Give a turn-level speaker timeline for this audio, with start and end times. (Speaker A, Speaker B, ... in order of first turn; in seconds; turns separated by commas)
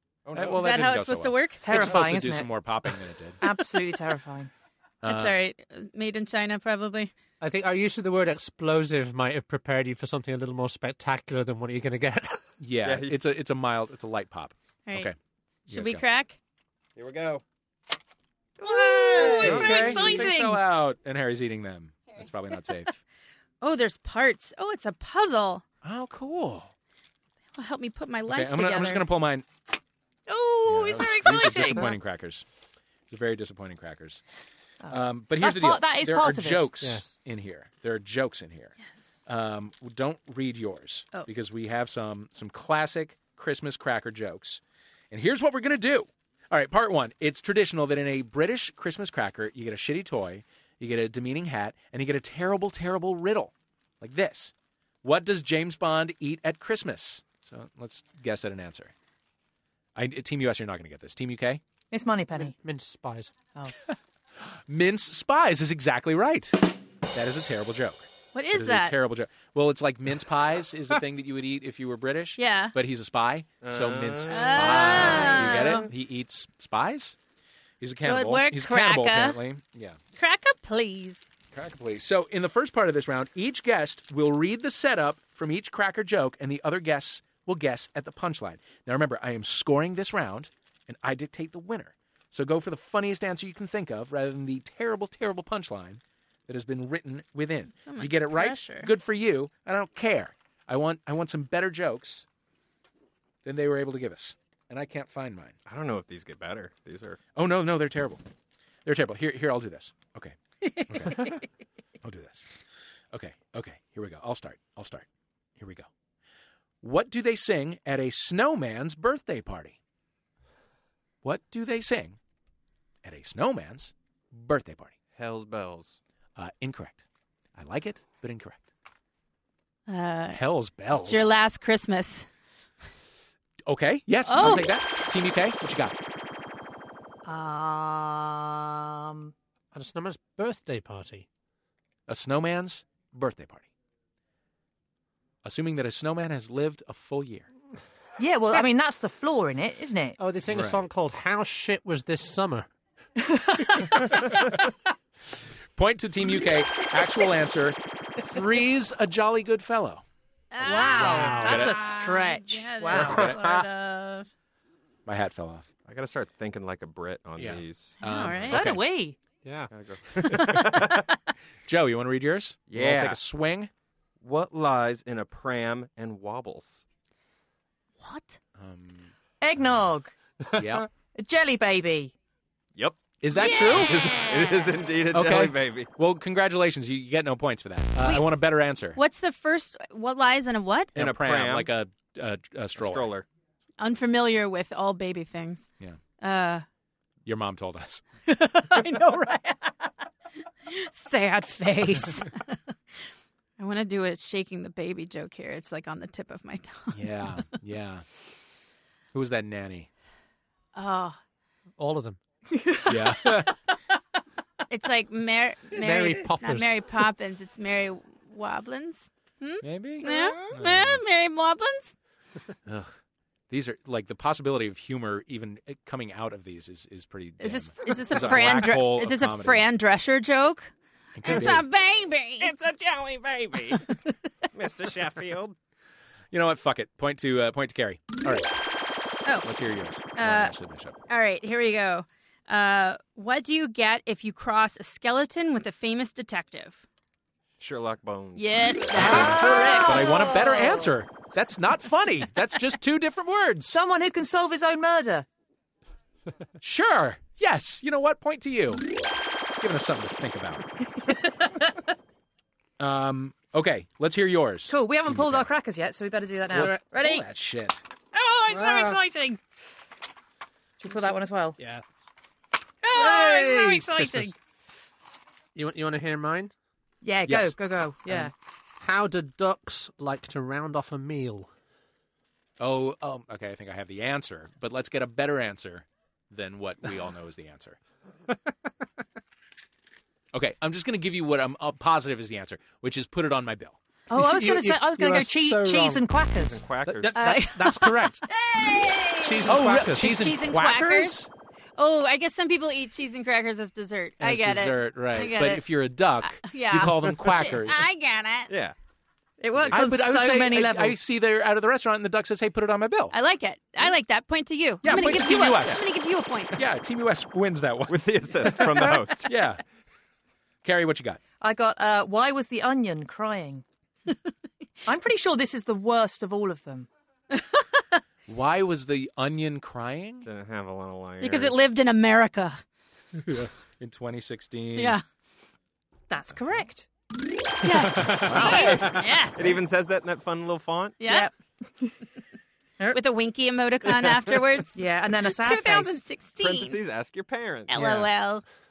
Speaker A: 0.2-0.7, Speaker B: 0.3-3.4, Speaker C: 0.5-1.6, Speaker D: 1.6-2.6, Speaker D: 3.4-4.5, Speaker B: 5.0-5.4, Speaker C: 5.0-7.1, Speaker E: 7.4-12.4, Speaker B: 12.6-15.1, Speaker A: 12.8-13.2, Speaker B: 15.7-16.0, Speaker C: 15.7-16.4, Speaker A: 16.9-17.4, Speaker D: 18.6-20.6, Speaker C: 18.6-20.3, Speaker B: 19.1-23.0, Speaker A: 19.4-19.9, Speaker C: 23.6-25.6, Speaker B: 25.8-26.7, Speaker C: 27.6-29.1, Speaker B: 28.3-29.5, Speaker D: 30.3-32.0, Speaker B: 30.7-32.5, Speaker B: 33.1-34.2, Speaker D: 34.8-36.7, Speaker B: 34.9-38.7, Speaker E: 36.8-37.1, Speaker B: 39.2-58.9, Speaker B: 60.0-61.6, Speaker D: 61.9-62.5, Speaker E: 62.5-63.3, Speaker B: 63.9-77.2, Speaker C: 68.3-68.9, Speaker C: 72.4-72.7, Speaker A: 73.6-75.7, Speaker C: 74.3-75.9, Speaker B: 77.8-80.0, Speaker C: 78.0-79.4, Speaker C: 80.2-81.2, Speaker B: 81.5-102.2, Speaker C: 97.8-98.9, Speaker B: 103.4-105.5, Speaker A: 105.7-107.2, Speaker B: 107.3-108.2, Speaker B: 108.8-111.4, Speaker B: 112.0-112.5, Speaker B: 113.1-115.0, Speaker B: 115.6-115.9, Speaker B: 116.8-119.8, Speaker B: 121.2-122.2, Speaker B: 123.0-124.9, Speaker A: 125.1-126.0, Speaker B: 126.4-127.0, Speaker B: 127.5-128.7, Speaker C: 129.9-130.4, Speaker B: 130.3-131.3, Speaker C: 130.9-132.3, Speaker B: 133.7-135.9, Speaker C: 134.2-134.8, Speaker D: 137.2-139.3, Speaker E: 139.7-141.2, Speaker B: 142.1-143.7, Speaker B: 145.4-147.5, Speaker D: 148.2-150.2, Speaker E: 150.2-152.7, Speaker B: 150.5-150.8, Speaker D: 153.2-154.1, Speaker B: 155.8-160.0, Speaker C: 160.5-164.3, Speaker D: 160.6-163.4, Speaker E: 161.0-161.6, Speaker B: 161.1-161.8, Speaker B: 162.9-163.4, Speaker B: 165.1-165.7, Speaker A: 165.8-168.0, Speaker B: 167.4-168.8, Speaker C: 168.0-168.6, Speaker D: 168.4-169.2, Speaker E: 169.4-169.7, Speaker A: 169.7-171.1, Speaker B: 170.2-170.8, Speaker B: 171.7-173.7, Speaker A: 172.7-173.2, Speaker A: 174.2-176.8, Speaker C: 178.0-178.4, Speaker B: 178.6-179.1, Speaker D: 179.4-180.2, Speaker B: 180.5-180.9, Speaker D: 181.1-182.1, Speaker A: 182.8-185.9, Speaker B: 183.2-184.0, Speaker C: 183.3-184.7, Speaker B: 185.1-189.0, Speaker C: 188.0-188.3, Speaker C: 188.9-190.9, Speaker B: 190.9-193.1, Speaker A: 190.9-191.7, Speaker A: 192.8-193.2, Speaker C: 193.8-195.7, Speaker C: 196.2-196.6, Speaker B: 197.2-198.0, Speaker C: 198.3-199.7, Speaker C: 200.7-202.6, Speaker C: 203.6-207.1, Speaker B: 206.9-208.0, Speaker B: 209.1-209.9, Speaker C: 210.7-211.2, Speaker E: 211.8-212.2, Speaker D: 212.5-213.2, Speaker B: 212.9-213.5, Speaker C: 214.7-221.9, Speaker E: 215.7-216.7, Speaker B: 219.6-221.0, Speaker B: 222.7-222.9, Speaker B: 223.5-229.6, Speaker C: 227.4-230.7, Speaker B: 231.2-231.7, Speaker C: 231.2-232.5, Speaker A: 232.4-233.9, Speaker A: 234.5-235.6, Speaker B: 236.3-238.5, Speaker B: 239.4-240.9, Speaker C: 240.2-240.5, Speaker C: 241.1-246.8, Speaker A: 247.6-249.8, Speaker C: 248.3-250.5, Speaker D: 248.9-250.7, Speaker B: 249.0-253.8, Speaker D: 253.7-255.3, Speaker B: 256.6-258.8, Speaker B: 259.6-260.7, Speaker D: 261.2-261.7, Speaker B: 262.8-265.5, Speaker D: 264.7-267.2, Speaker E: 266.6-266.8, Speaker B: 266.6-267.8, Speaker D: 268.1-269.4, Speaker E: 268.5-269.0, Speaker D: 270.8-271.6, Speaker E: 271.6-271.8, Speaker D: 272.8-274.3, Speaker E: 273.0-274.3, Speaker E: 275.5-276.5, Speaker D: 277.0-278.3, Speaker B: 277.2-277.5, Speaker E: 278.8-281.5, Speaker B: 282.6-287.8, Speaker B: 290.3-293.8, Speaker D: 294.1-296.6, Speaker E: 294.1-296.1, Speaker A: 296.4-297.4, Speaker B: 296.9-298.2, Speaker C: 297.1-301.2, Speaker E: 297.3-298.1, Speaker E: 299.2-300.2, Speaker B: 299.4-301.3, Speaker C: 301.8-305.6, Speaker B: 304.2-307.9, Speaker C: 306.2-308.5, Speaker A: 308.5-308.7, Speaker D: 309.4-311.0, Speaker B: 309.7-313.1, Speaker C: 313.1-316.6, Speaker B: 314.8-315.8, Speaker B: 316.5-319.6, Speaker A: 317.9-319.4, Speaker B: 320.6-321.2, Speaker D: 321.4-323.6, Speaker D: 324.8-326.9, Speaker B: 328.3-330.3, Speaker A: 330.2-331.7, Speaker C: 331.2-332.6, Speaker B: 333.3-335.0, Speaker C: 334.8-335.0, Speaker D: 336.1-336.9, Speaker C: 337.6-339.6, Speaker B: 338.1-338.9, Speaker A: 338.4-341.0, Speaker C: 341.0-341.3, Speaker D: 341.0-341.9, Speaker C: 342.9-344.8, Speaker D: 344.7-346.0, Speaker C: 345.3-346.8, Speaker A: 346.4-348.0, Speaker C: 347.7-348.4